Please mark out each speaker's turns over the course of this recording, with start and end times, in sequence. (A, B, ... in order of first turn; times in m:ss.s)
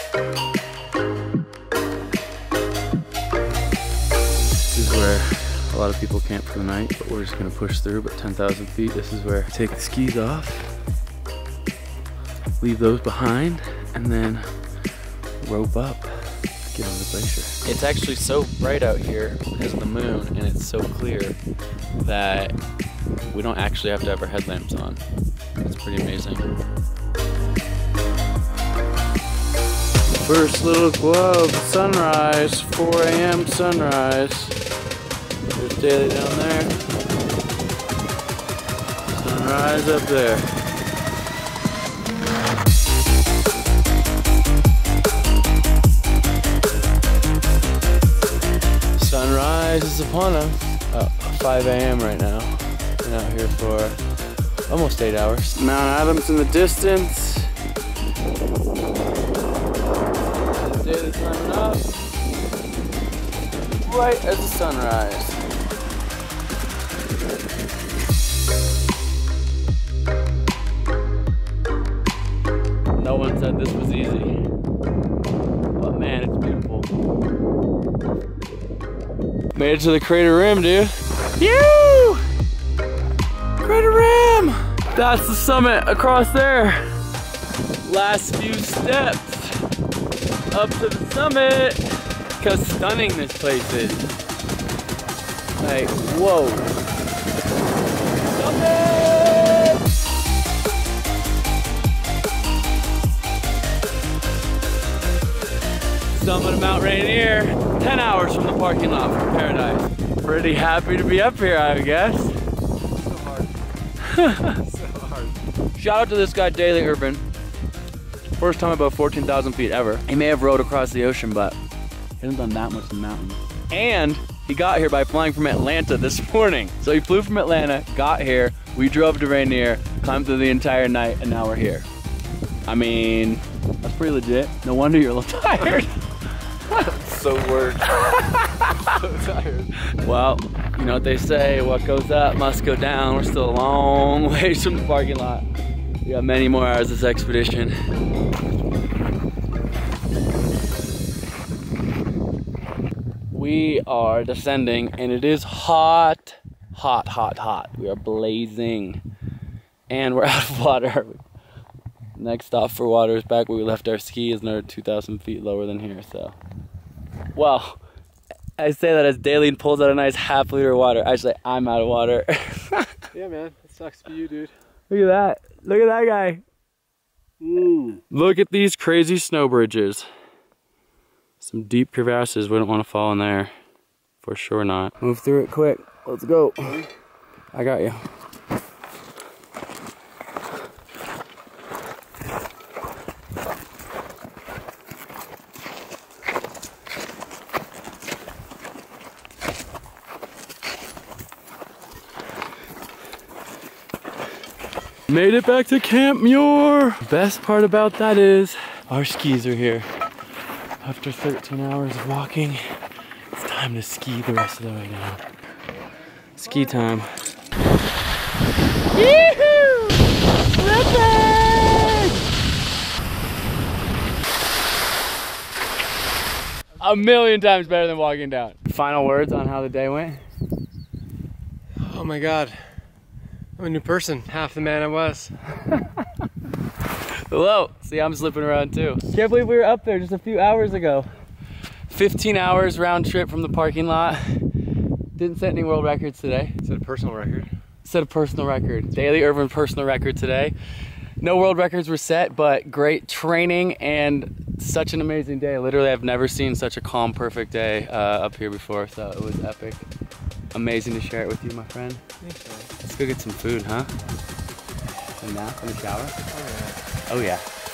0:04.6-0:10.7 A
0:12.6-0:14.5 A
0:15.4-0:21.4 A
0:22.0-0:22.6 A
0:23.3-0:25.0 A
0:25.6-0:26.5 A
0:30.2-0:34.6 A
0:35.5-0:36.7 A
0:39.1-0:40.5 A
0:49.0-0:54.0 A
0:54.7-0:57.5 A
1:00.6-1:01.9 A
1:03.6-1:05.4 A
1:13.0-1:14.4 A
1:15.8-1:16.9 A
1:19.5-1:22.2 A
1:23.6-1:26.8 A
1:27.8-1:29.6 A
1:30.5-1:31.9 A
1:32.4-1:34.1 A
1:35.6-1:36.8 A
1:38.3-1:39.8 A
1:46.1-1:52.4 A
1:53.1-1:53.5 B
1:54.0-1:54.6 A
1:54.6-1:55.3 B
1:55.7-1:57.2 A
1:58.4-2:01.6 A
2:02.2-2:11.9 A
2:12.7-2:16.0 A
2:16.7-2:17.8 B
2:18.0-2:18.8 A
2:19.0-2:19.7 B
2:19.9-2:25.4 A
2:26.0-2:27.8 A
2:33.3-2:39.0 A
2:39.9-2:41.2 A
2:42.2-2:46.4 A
2:47.4-2:47.8 A
2:48.6-2:53.0 A
2:53.2-2:54.5 B
2:54.9-2:56.4 A
2:57.4-2:58.0 B
2:58.1-3:00.1 A
3:01.4-3:03.5 A
3:04.2-3:06.8 A
3:07.5-3:08.1 A
3:25.1-3:29.9 A
3:30.8-3:32.6 A
3:33.3-3:35.2 A
3:36.4-3:37.1 A
3:38.9-3:42.2 A
3:46.8-3:50.2 A
3:51.8-3:52.6 B
3:53.6-3:55.3 B
3:57.3-4:01.1 A
4:01.9-4:04.4 A
4:05.2-4:06.6 A
4:06.6-4:07.5 B
4:07.8-4:10.6 A
4:11.2-4:19.8 A
4:20.5-4:22.0 A
4:22.2-4:22.7 B
4:22.8-4:23.9 A
4:25.2-4:26.2 A
4:26.4-4:26.7 B
4:27.1-4:27.4 A